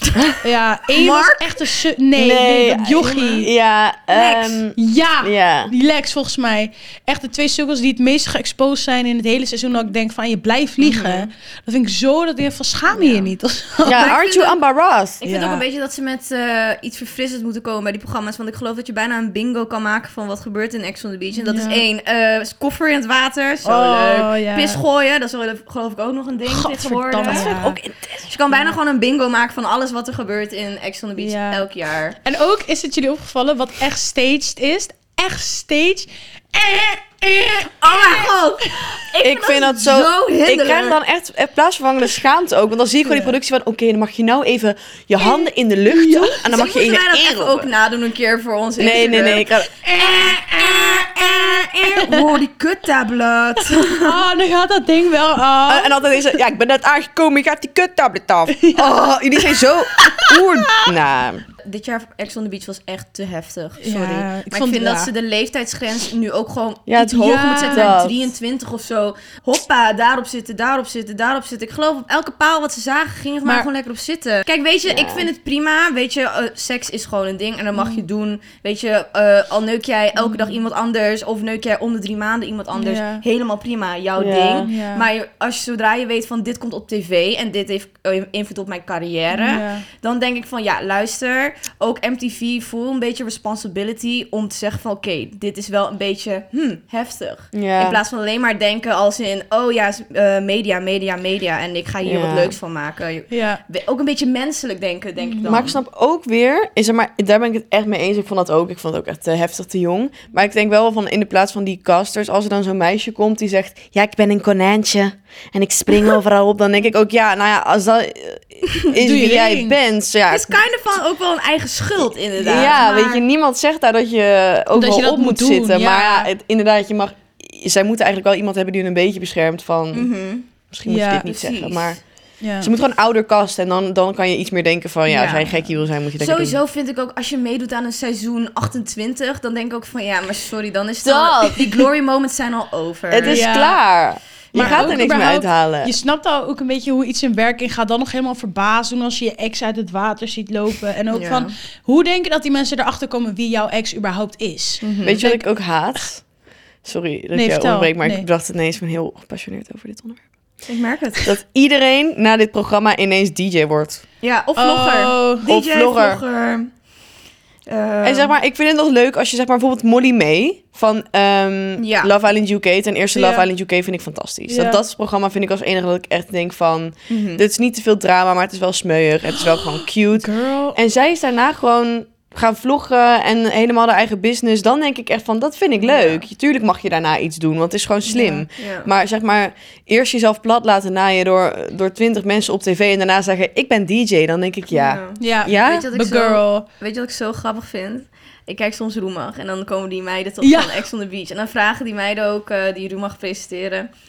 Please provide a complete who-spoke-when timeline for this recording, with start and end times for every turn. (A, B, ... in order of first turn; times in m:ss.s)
0:00.4-0:03.5 A
0:00.9-0:01.7 B
0:02.2-0:05.7 C
0:04.1-0:04.6 B
0:04.8-0:14.1 A
0:10.8-0:11.3 B
0:12.9-0:13.3 B
0:13.8-0:15.2 C
0:13.9-0:14.6 B
0:15.2-0:27.5 B
0:15.2-0:15.6 A
0:21.4-0:21.8 A
0:23.6-0:24.8 A
0:26.5-0:27.8 A
0:27.2-0:28.3 C
0:28.2-0:32.2 B
0:31.2-0:31.6 A
0:32.2-0:38.9 A
0:37.8-0:41.0 B
0:39.2-0:47.7 C
0:43.0-0:43.3 A
0:45.9-0:46.4 A
0:46.4-0:54.2 B
0:48.8-0:49.7 C
0:49.8-0:52.2 A
0:53.7-0:56.2 A
0:55.7-1:01.4 C
0:58.5-1:00.9 A
1:01.6-1:45.8 B
1:03.8-1:05.1 A
1:06.9-1:08.3 C
1:07.0-1:07.9 A
1:14.8-1:15.3 C
1:17.7-1:18.0 A
1:20.2-1:20.5 A
1:22.8-1:23.2 A
1:24.2-1:24.7 C
1:24.6-1:25.1 A
1:29.3-1:29.8 A
1:37.5-1:38.0 C
1:42.0-1:42.6 C
1:43.3-1:43.6 A
1:45.2-1:45.7 A
1:45.4-2:00.6 C
1:58.9-1:59.8 A
2:00.3-2:03.2 B
2:02.4-2:10.1 C
2:04.7-2:06.3 A
2:09.9-2:10.5 B
2:10.7-2:12.0 C
2:10.8-2:11.2 A
2:11.2-2:12.0 B
2:12.4-2:12.7 A
2:12.6-2:16.6 C
2:15.1-2:23.4 B
2:21.0-2:21.9 C
2:23.1-2:25.9 C
2:23.3-2:23.8 A
2:24.5-2:25.0 B
2:24.5-2:35.4 A
2:31.1-2:31.5 B
2:34.8-2:35.2 B
2:35.0-2:36.2 C
2:36.8-2:40.2 C
2:37.3-2:38.2 A
2:40.7-2:41.3 B
2:41.2-2:44.0 C
2:44.2-2:46.7 B
2:44.6-2:45.4 A
2:45.4-2:46.2 C
2:47.7-2:48.3 B
2:48.0-3:15.9 C
2:51.8-2:52.1 B
2:53.1-2:53.5 A
2:54.5-2:54.8 A
2:57.1-2:57.4 B
3:00.2-3:00.8 A
3:05.8-3:06.2 B
3:08.1-3:08.4 A
3:08.6-3:08.9 B
3:14.7-3:23.9 B
3:15.2-3:16.6 A
3:20.4-3:20.8 A